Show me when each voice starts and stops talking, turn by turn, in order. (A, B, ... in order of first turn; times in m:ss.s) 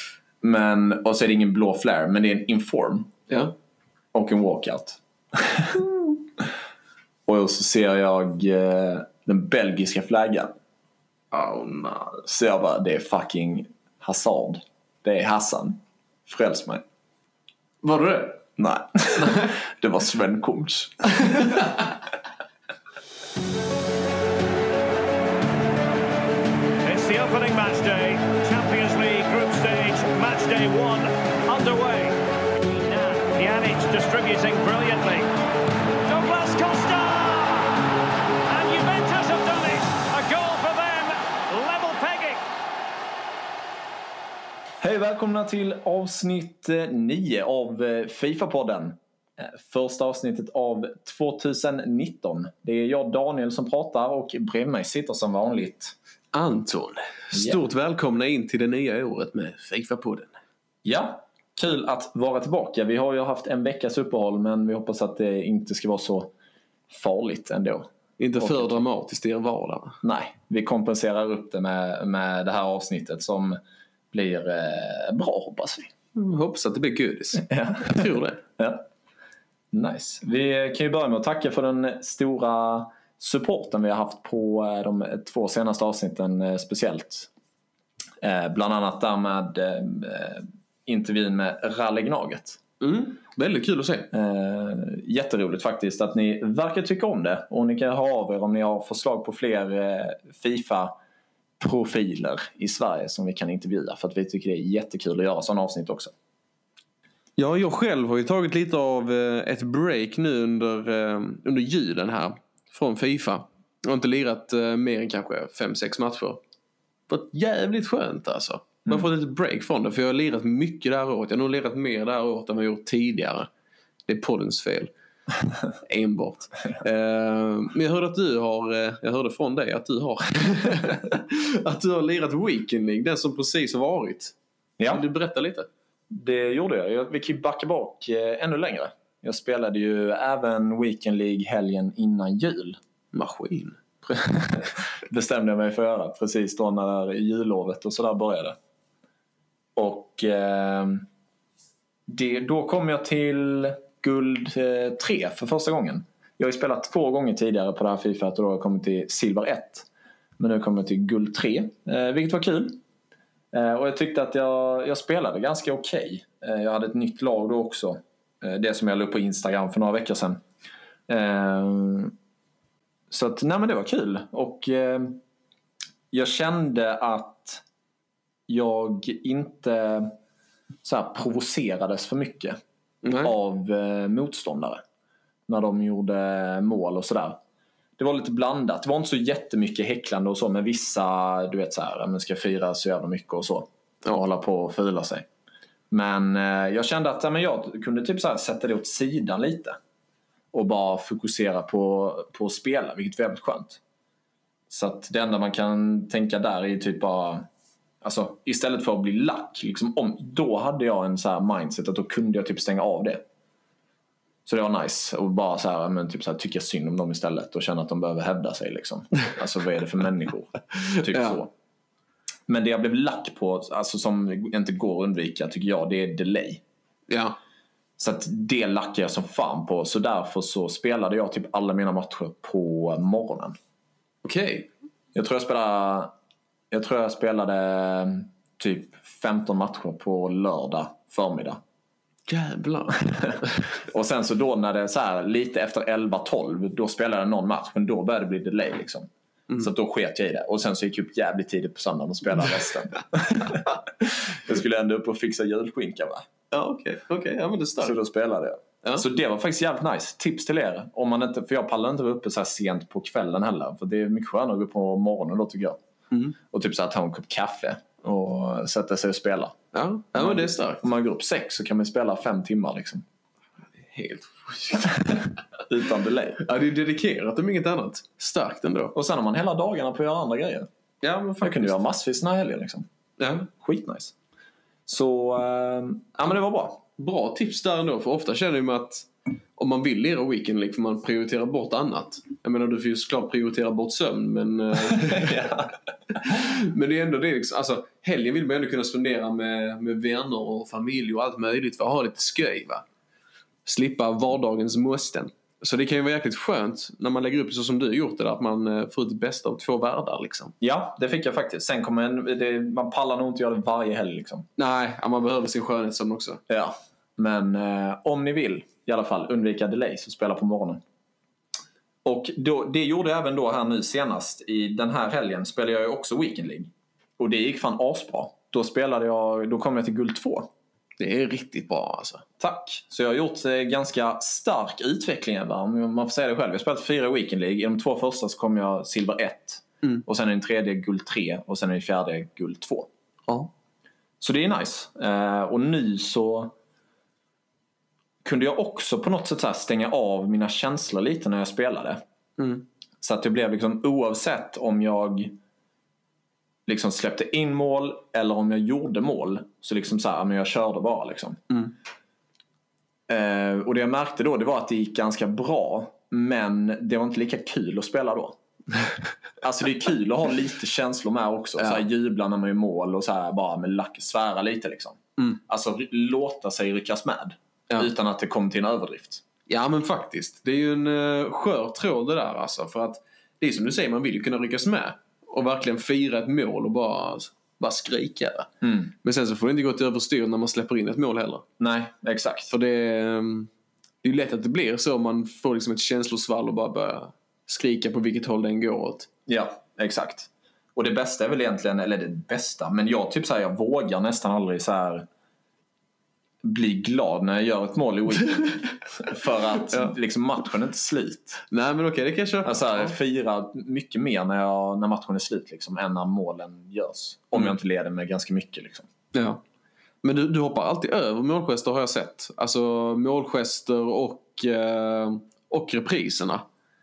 0:00.4-0:03.1 A
0:03.3-0:03.5 B
0:04.1-0:06.1 A
0:07.3-0:10.5 A
0:11.3-0:12.2 B
0:12.2-0:16.8 A
0:17.8-0:18.4 B
0:18.6-0:21.7 A
0:19.2-0:19.5 B
0:21.2-0:21.7 B
0:26.8-0:35.3 C
0:36.1-0:37.7 C
0:38.5-0:42.4 C
0:44.8-0:56.0 A
0:56.3-1:00.4 B
0:57.3-0:57.6 A
1:00.8-1:06.3 A
1:06.9-1:08.8 A
1:08.2-1:10.0 B
1:10.0-1:13.6 A
1:14.1-1:15.9 A
1:16.1-1:18.4 B
1:17.4-1:18.8 A
1:19.7-1:27.3 A
1:28.2-1:32.6 A
1:32.8-1:34.1 B
1:34.1-1:40.9 A
1:41.6-1:46.1 A
1:47.4-1:56.4 B
1:57.1-2:03.5 B
2:04.1-2:04.9 B
2:05.8-2:15.7 B
2:16.1-2:22.8 A
2:23.1-2:23.8 B
2:24.1-2:28.6 A
2:29.8-2:31.0 A
2:32.1-2:39.9 A
2:40.4-2:42.8 A
2:43.5-2:50.4 A
2:51.1-2:52.1 A
2:53.1-2:55.2 A
2:56.1-2:57.6 A
2:58.5-3:00.1 A
3:00.8-3:02.6 A
3:03.0-3:03.3 B
3:03.2-3:04.8 A
3:05.5-3:07.4 A
3:08.0-3:15.2 A
3:15.9-3:19.8 A
3:20.5-3:23.8 A
3:24.7-3:27.4 A
3:28.0-3:33.2 A
3:34.4-3:41.5 A
3:41.0-3:41.4 B
3:42.5-3:46.6 A
3:47.1-3:47.4 B
3:48.0-3:53.6 A
3:54.2-3:54.7 B
3:55.1-3:56.1 A
3:56.7-4:01.6 A
4:02.3-4:03.6 B
4:03.1-4:16.3 A
4:16.5-4:18.0 B
4:17.8-4:25.8 A
4:26.4-4:29.6 A
4:29.7-4:30.8 B
4:30.1-4:33.0 A
4:33.7-4:35.3 B
4:35.7-4:36.4 A
4:36.4-4:38.9 B
4:38.9-4:40.7 A
4:41.0-4:41.8 B
4:41.4-4:42.8 A
4:43.2-4:43.5 B
4:43.6-4:44.1 A
4:44.9-4:46.8 A
4:47.0-4:55.4 B
4:54.9-4:56.2 A
4:56.2-5:02.8 B
5:03.6-5:10.5 B
5:10.6-5:14.5 A
5:14.6-5:16.4 B
5:16.5-5:20.8 A
5:22.0-5:30.5 A
5:31.0-5:32.2 B
5:32.4-5:42.9 A
5:44.2-5:46.5 A
5:48.2-5:52.0 A
5:52.4-5:52.6 B
5:53.0-5:55.4 A
5:56.7-6:01.4 A
6:03.1-6:08.4 A
6:09.4-6:19.2 A
6:11.6-6:11.8 B
6:19.5-6:28.5 B
6:28.6-6:28.9 A
6:29.0-6:31.4 B
6:31.6-6:32.5 A
6:32.5-6:33.5 B
6:34.0-6:39.1 B
6:39.3-6:45.0 A
6:46.4-6:51.4 A
6:51.5-6:52.9 B
6:52.4-6:58.9 A
6:59.1-6:59.4 B
7:00.0-7:06.4 B